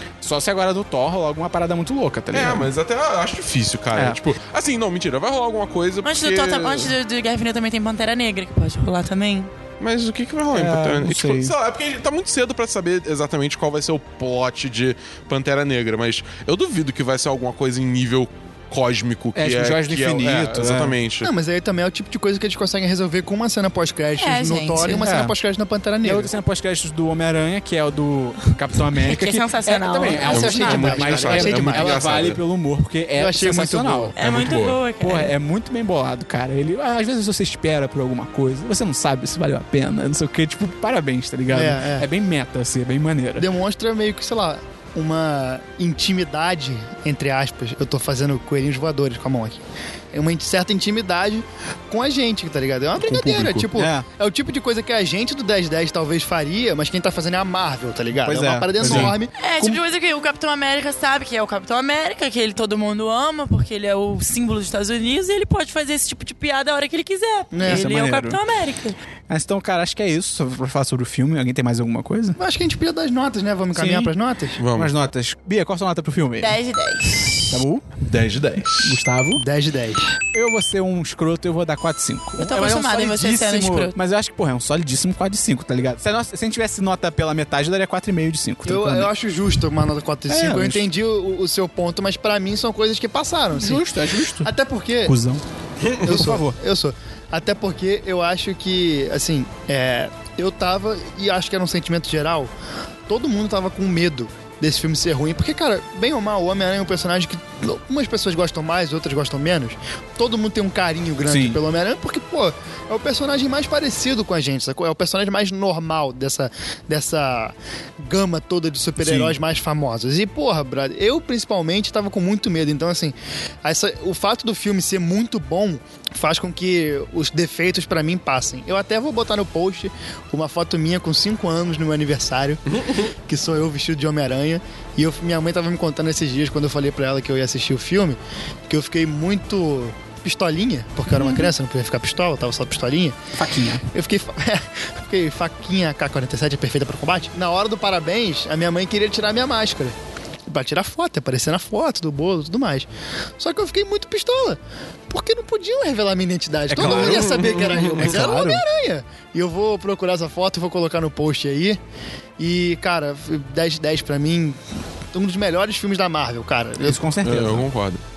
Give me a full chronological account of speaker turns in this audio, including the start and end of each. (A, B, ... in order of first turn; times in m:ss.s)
0:00.2-0:02.7 A
0:02.3-0:06.9 B
0:03.9-0:04.2 A
0:06.0-0:09.5 C
0:09.8-0:21.3 B
0:10.5-0:11.5 A
0:19.4-0:21.0 A
0:21.2-0:26.3 D
0:24.2-0:25.0 C
0:25.0-0:25.4 A
0:26.0-0:43.5 A
0:29.0-0:30.4 C
0:30.3-0:32.1 D
0:30.3-0:32.4 B
0:33.2-0:34.2 D
0:34.2-0:35.3 C
0:34.2-0:34.8 B
0:41.5-0:42.1 D
0:43.4-0:59.3 D
0:53.0-0:53.7 B
0:53.7-0:54.1 A
0:58.2-0:59.8 A
0:58.8-0:59.2 B
0:59.4-1:09.0 C
1:07.5-1:07.9 D
1:07.6-1:08.4 A
1:09.3-1:12.4 A
1:12.4-1:14.6 D
1:13.7-1:14.1 A
1:14.6-1:14.9 B
1:14.7-1:16.6 A
1:16.4-1:17.6 C
1:17.5-1:17.9 A
1:18.0-1:19.0 B
1:18.7-1:19.4 A
1:19.4-1:20.1 D
1:20.3-1:29.1 A
1:22.4-1:24.0 C
1:28.7-1:33.8 D
1:30.3-1:30.9 A
1:33.5-1:34.5 A
1:34.4-1:35.1 D
1:35.0-1:35.4 A
1:36.0-1:42.5 D
1:36.0-1:36.6 A
1:43.1-2:23.2 D
1:51.3-1:51.6 A
1:59.0-1:59.4 A
2:12.7-2:13.0 B
2:23.4-2:23.8 A
2:23.9-2:30.0 D
2:30.5-2:32.9 D
2:33.4-2:41.8 D
2:36.7-2:38.6 A
2:36.8-2:38.3 B
2:42.4-2:44.6 D
2:45.1-2:47.0 D
2:46.8-2:47.7 A
2:47.2-2:48.0 B